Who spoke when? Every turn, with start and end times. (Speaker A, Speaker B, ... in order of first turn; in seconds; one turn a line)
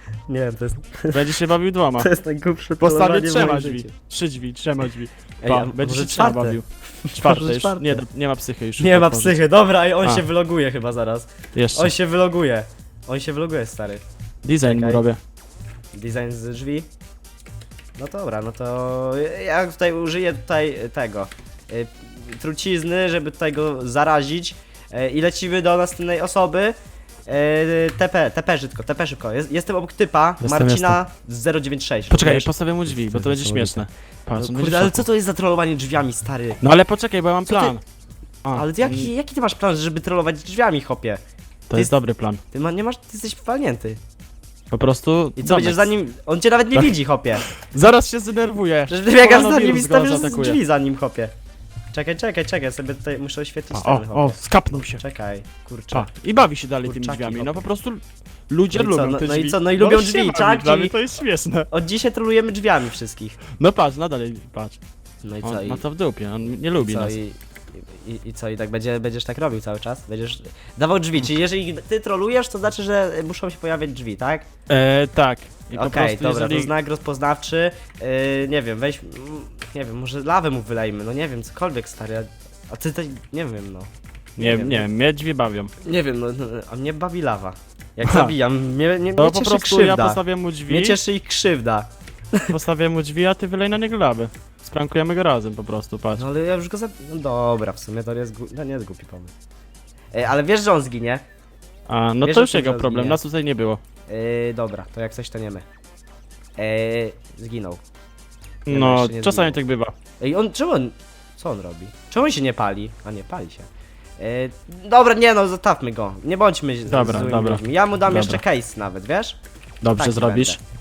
Speaker A: 0.3-1.2
Speaker B: 1.1-2.1
Speaker A: 2.0-3.9
Speaker B: 2.8-9.4
Speaker A: 5.4-8.0
Speaker A: 8.8-14.0
Speaker B: 11.5-11.9
Speaker B: 14.4-15.2
Speaker A: 14.6-15.0
Speaker A: 15.9-16.9
Speaker A: 18.0-26.8
Speaker A: 27.3-36.6
Speaker B: 30.4-31.0
Speaker B: 32.1-35.1
Speaker B: 36.6-37.8
Speaker A: 37.5-37.8
Speaker B: 38.4-39.1
Speaker A: 38.5-41.2
Speaker B: 41.7-42.4
Speaker A: 42.5-44.0
Speaker B: 44.7-45.9
Speaker A: 45.4-47.4
Speaker B: 46.7-50.6
Speaker A: 48.9-51.3
Speaker A: 51.9-56.1
Speaker B: 53.7-55.0
Speaker B: 55.9-61.7
Speaker A: 56.8-57.7
Speaker A: 58.7-61.0
Speaker A: 61.7-63.4
Speaker B: 63.6-64.8
Speaker A: 65.2-65.8
Speaker B: 65.4-67.2
Speaker A: 66.8-74.5
Speaker B: 74.7-76.7
Speaker A: 75.7-84.9
Speaker B: 84.4-85.7
Speaker A: 85.8-92.5
Speaker B: 88.0-88.3
Speaker B: 89.2-91.0
Speaker B: 92.5-96.2
Speaker A: 96.2-99.3
Speaker A: 100.1-101.2
Speaker B: 101.9-103.8
Speaker A: 102.2-103.2
Speaker A: 104.1-105.7
Speaker A: 106.6-107.8
Speaker B: 108.7-109.9
Speaker A: 108.7-109.6
Speaker A: 110.2-113.7
Speaker A: 114.2-119.4
Speaker B: 116.9-118.4
Speaker B: 119.8-120.6
Speaker A: 119.9-120.6